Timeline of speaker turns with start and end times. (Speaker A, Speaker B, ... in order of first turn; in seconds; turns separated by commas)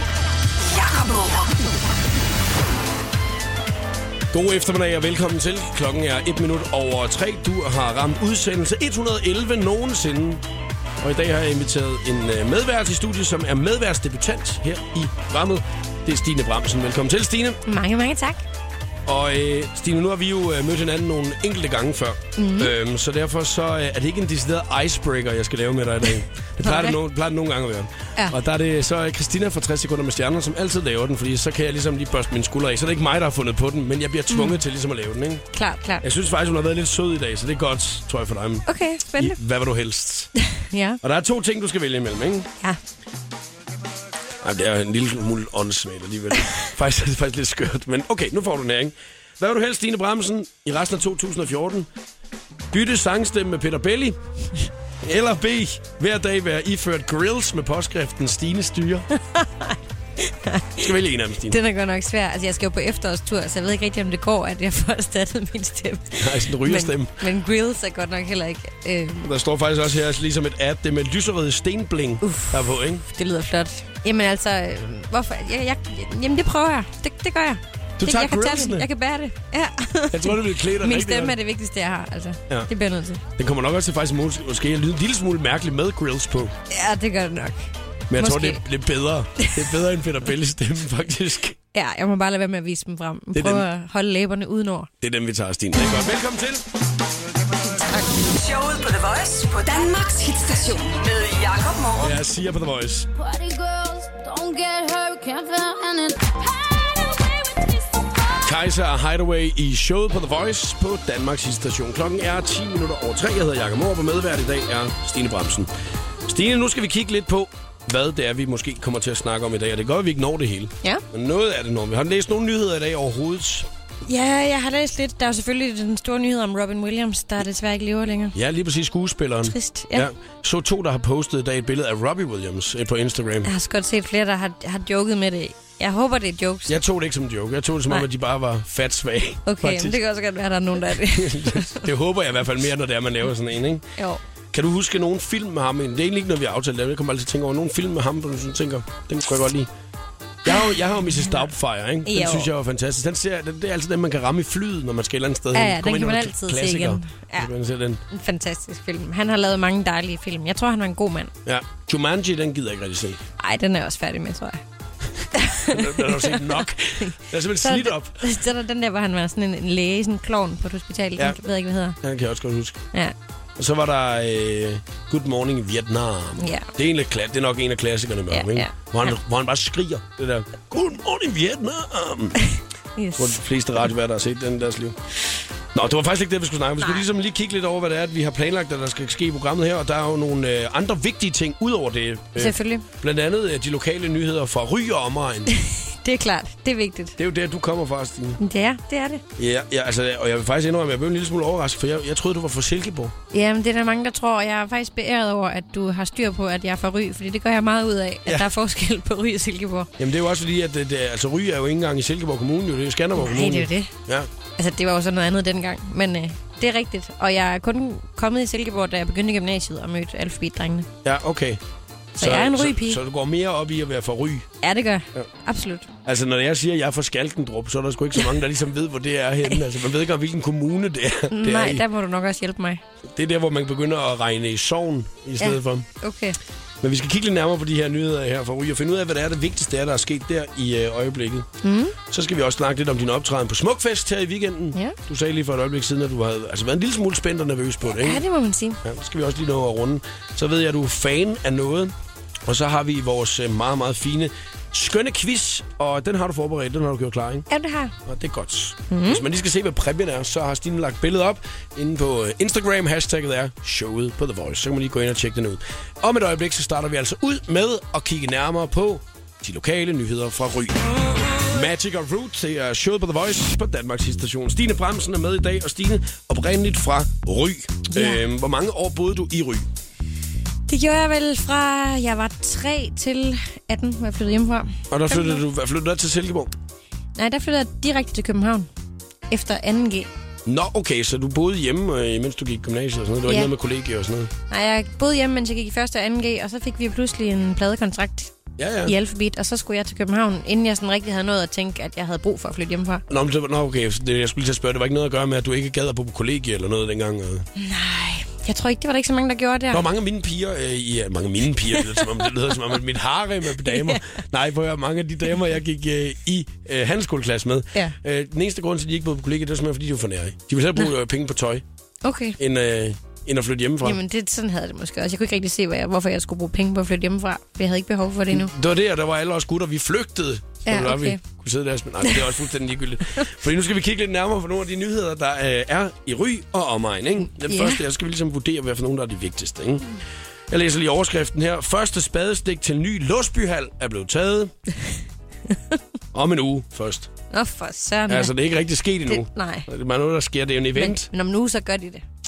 Speaker A: 0.6-1.6, Speaker B: 4.3-10.4, Speaker B: 11.0-17.6, Speaker C: 17.6-18.4, Speaker B: 19.1-35.4, Speaker C: 22.4-22.7, Speaker C: 26.6-27.0, Speaker C: 34.3-34.6, Speaker C: 35.5-36.0, Speaker B: 36.0-40.3, Speaker C: 38.7-39.4, Speaker C: 40.6-41.0, Speaker B: 41.0-42.5, Speaker B: 44.4-51.9, Speaker B: 52.7-54.2, Speaker B: 55.0-59.1, Speaker C: 59.3-59.8, Speaker C: 60.3-60.9, Speaker B: 60.8-61.6, Speaker C: 61.5-69.3, Speaker B: 66.2-67.2, Speaker B: 69.2-73.0, Speaker C: 72.2-83.2, Speaker B: 78.0-78.9, Speaker B: 80.1-81.4, Speaker B: 83.4-86.5, Speaker C: 86.7-87.6, Speaker B: 88.1-91.6, Speaker C: 88.2-88.6, Speaker C: 91.7-94.9, Speaker B: 93.3-93.7, Speaker B: 95.0-96.7, Speaker C: 97.8-98.1, Speaker A: 98.1-102.2, Speaker B: 102.0-103.1, Speaker D: 103.1-108.4, Speaker B: 108.4-115.7, Speaker B: 116.2-123.7, Speaker C: 124.0-128.3, Speaker B: 128.3-133.5, Speaker C: 129.4-130.1, Speaker C: 133.4-136.8, Speaker B: 136.7-139.9, Speaker C: 139.4-141.9, Speaker B: 141.1-143.8, Speaker B: 144.5-149.7, Speaker B: 150.4-158.0, Speaker C: 152.1-152.5, Speaker C: 155.5-157.5, Speaker C: 158.1-161.3, Speaker B: 161.4-163.2, Speaker C: 163.4-164.6, Speaker C: 165.3-172.0, Speaker B: 165.7-168.2, Speaker B: 172.0-172.8, Speaker B: 173.6-182.4, Speaker C: 176.4-176.7, Speaker C: 178.3-178.7, Speaker C: 183.0-183.4, Speaker B: 183.2-185.0, Speaker B: 185.7-195.5, Speaker C: 192.4-192.8, Speaker C: 195.5-197.2, Speaker B: 197.2-198.4, Speaker C: 198.4-199.2, Speaker B: 199.4-203.1, Speaker C: 203.3-209.9, Speaker B: 210.0-214.3, Speaker C: 213.2-213.9, Speaker C: 214.6-220.9, Speaker B: 221.0-221.6, Speaker C: 222.2-223.0, Speaker B: 222.2-224.5, Speaker C: 224.6-225.9, Speaker B: 226.0-231.8, Speaker C: 231.3-232.8, Speaker B: 233.1-235.8, Speaker C: 235.4-236.4, Speaker B: 236.8-241.5, Speaker C: 241.6-241.9, Speaker B: 242.0-248.2, Speaker C: 247.9-248.8, Speaker B: 248.8-251.9, Speaker B: 252.4-257.5, Speaker C: 257.5-257.9, Speaker B: 258.0-279.6, Speaker C: 258.9-259.2, Speaker C: 277.9-278.2, Speaker C: 280.7-285.4, Speaker B: 284.9-286.5, Speaker C: 287.1-288.7, Speaker C: 289.3-290.1, Speaker B: 290.4-294.3, Speaker C: 294.5-298.3, Speaker B: 298.6-298.9, Speaker C: 298.9-303.0, Speaker B: 303.1-307.5, Speaker C: 307.6-309.9, Speaker B: 309.7-321.6, Speaker C: 313.6-314.0, Speaker C: 322.0-322.4, Speaker B: 322.4-324.0, Speaker C: 323.8-328.5, Speaker B: 328.3-339.9, Speaker C: 330.6-331.2, Speaker C: 337.4-337.8, Speaker B: 340.5-344.5, Speaker B: 346.1-347.1, Speaker C: 347.3-348.3, Speaker B: 348.1-351.1, Speaker C: 349.1-349.7, Speaker C: 350.8-352.0